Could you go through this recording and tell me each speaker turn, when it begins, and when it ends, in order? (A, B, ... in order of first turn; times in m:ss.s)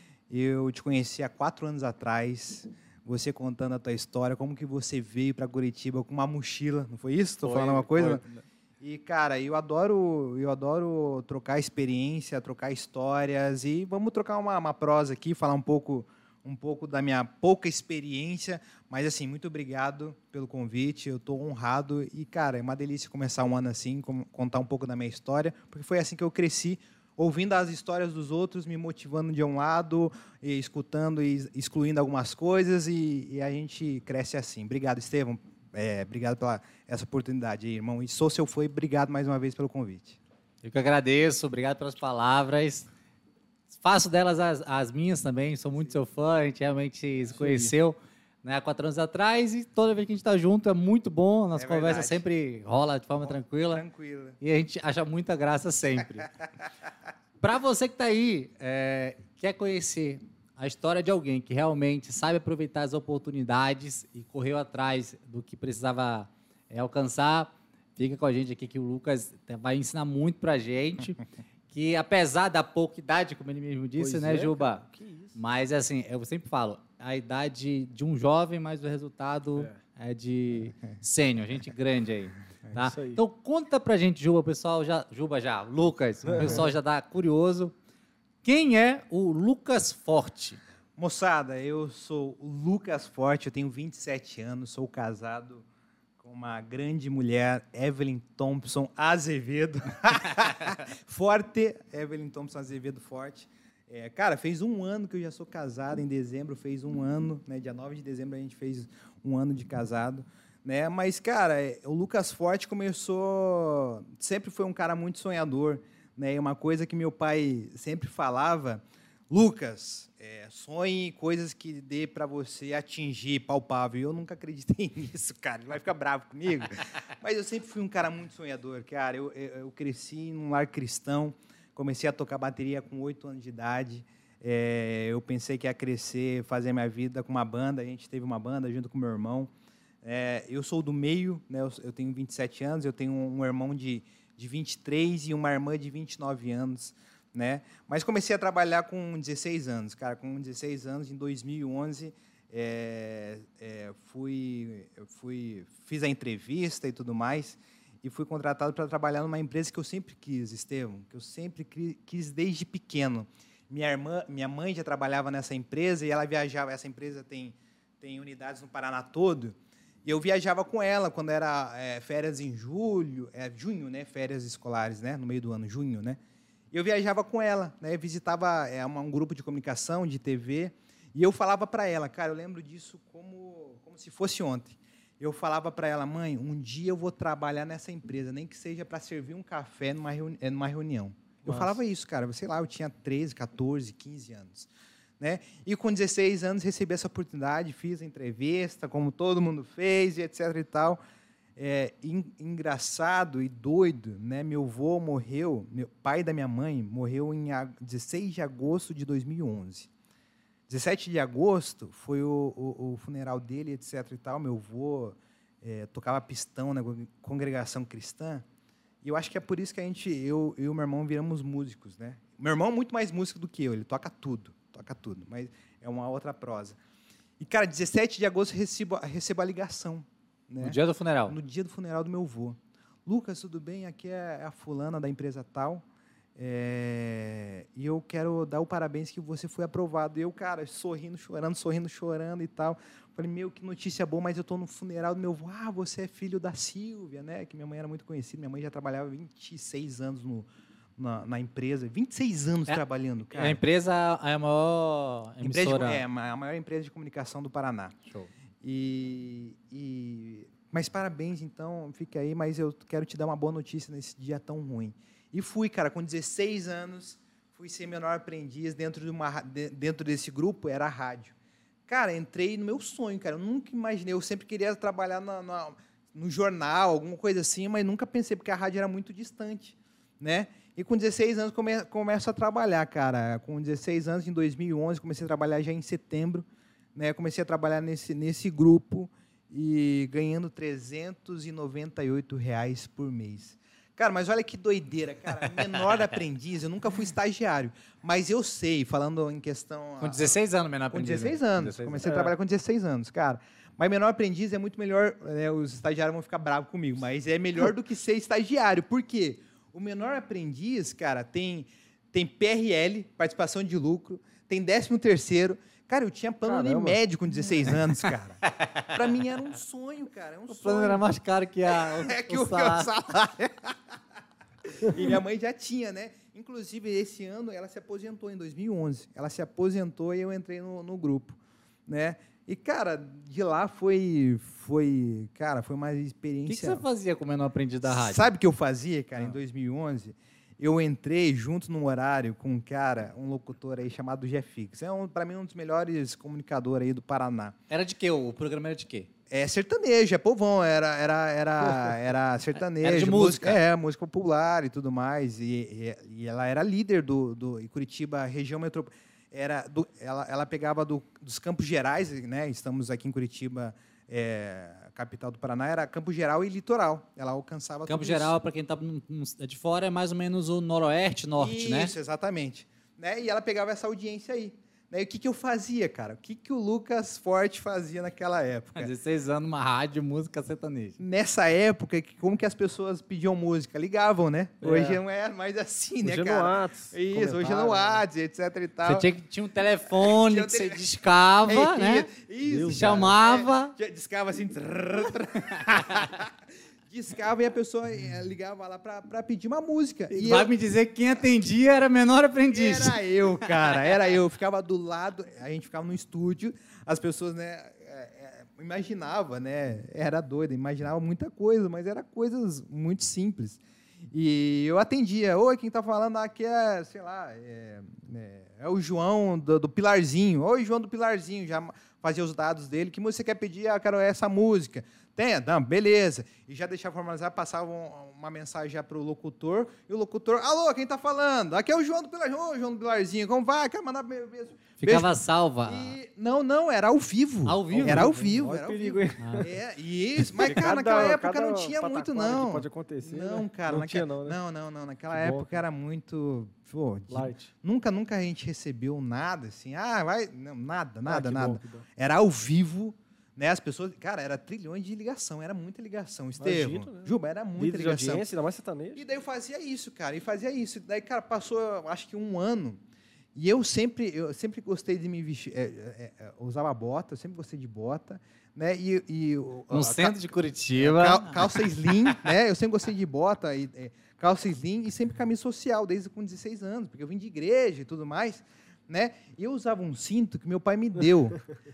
0:00.3-0:08.2 A
0:07.4-0:08.4 B
0:08.8-0:40.2 A
0:40.6-0:42.9 B
0:43.8-0:53.8 B
0:47.4-0:47.7 C
0:51.5-0:52.2 A
0:53.2-0:54.4 A
0:54.4-0:56.3 B
0:57.4-1:11.2 B
1:11.7-1:27.7 B
1:14.0-1:15.3 C
1:22.9-1:23.2 C
1:26.2-1:26.6 C
1:28.4-1:30.6 B
1:31.0-1:35.6 A
1:36.2-2:19.5 A
2:20.0-2:56.2 A
2:56.7-3:14.7 A
3:11.4-3:11.8 C
3:15.2-3:21.0 A
3:21.6-3:29.9 A
3:30.7-3:38.4 A
3:39.0-3:46.8 A
3:47.4-3:55.8 A
3:50.6-3:51.4 B
3:56.4-4:13.6 A
4:13.3-4:16.0 B
4:15.4-4:18.0 A
4:18.6-4:31.3 A
4:31.9-5:00.4 A
5:00.0-5:02.1 B
5:00.9-5:21.0 A
5:02.0-5:02.3 C
5:16.4-5:17.0 C
5:20.5-5:22.9 B
5:21.7-5:24.0 A
5:24.8-5:36.8 A
5:36.4-5:38.3 B
5:37.8-5:47.5 A
5:47.7-5:49.1 B
5:49.3-6:08.3 A
5:52.8-5:53.6 B
6:07.9-6:11.9 B
6:11.4-6:18.9 A
6:18.8-6:21.0 B
6:21.0-6:29.1 A
6:24.6-6:25.0 C
6:26.0-6:28.0 C
6:28.8-6:32.1 B
6:29.9-6:30.8 A
6:31.4-6:36.3 A
6:32.4-6:33.1 C
6:32.7-6:33.7 B
6:36.9-6:40.5 A
6:40.1-6:43.9 B
6:42.5-6:53.6 A
6:54.1-7:38.2 A
7:14.8-7:16.0 B
7:17.4-7:18.2 B
7:17.7-7:19.5 C
7:19.2-7:19.5 B
7:20.3-7:24.4 C
7:25.1-7:25.5 C
7:27.1-7:27.4 C
7:31.1-7:31.8 C
7:36.4-7:39.0 C
7:39.0-7:42.8 A
7:43.3-8:01.4 A
7:49.7-7:52.2 B